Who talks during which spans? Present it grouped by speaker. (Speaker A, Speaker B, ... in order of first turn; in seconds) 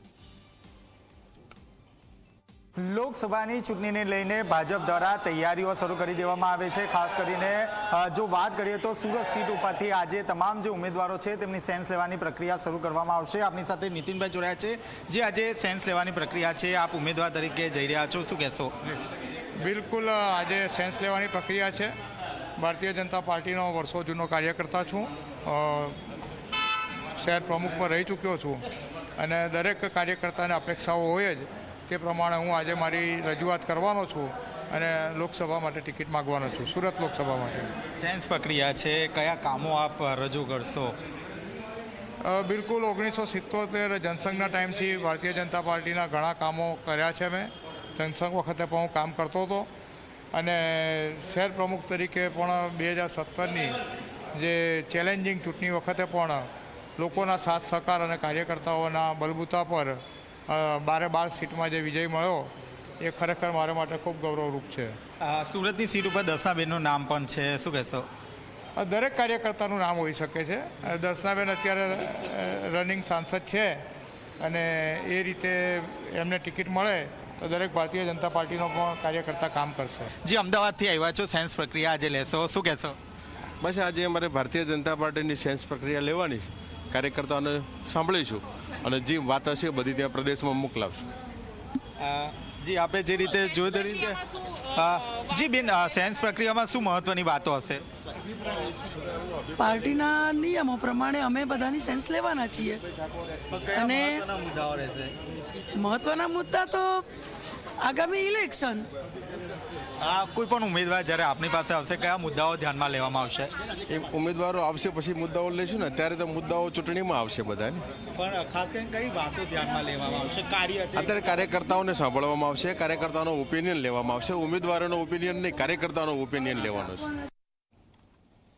Speaker A: 2.8-18.8, 38.0-41.0, 65.2-68.1, 80.2-83.0, 92.0-94.2, 94.7-97.8, 103.5-105.2, 110.0-113.5, 118.2-121.2
Speaker B: 19.6-21.9, 22.6-26.0, 27.2-28.6, 29.2-37.7, 42.2-49.7, 50.3-53.8, 54.3-65.0, 68.8-73.8, 74.4-80.1
Speaker C: 83.6-91.0, 113.9-117.8, 121.0-127.1
Speaker D: 99.6-102.8, 103.8-104.2, 105.7-107.1, 107.8-108.9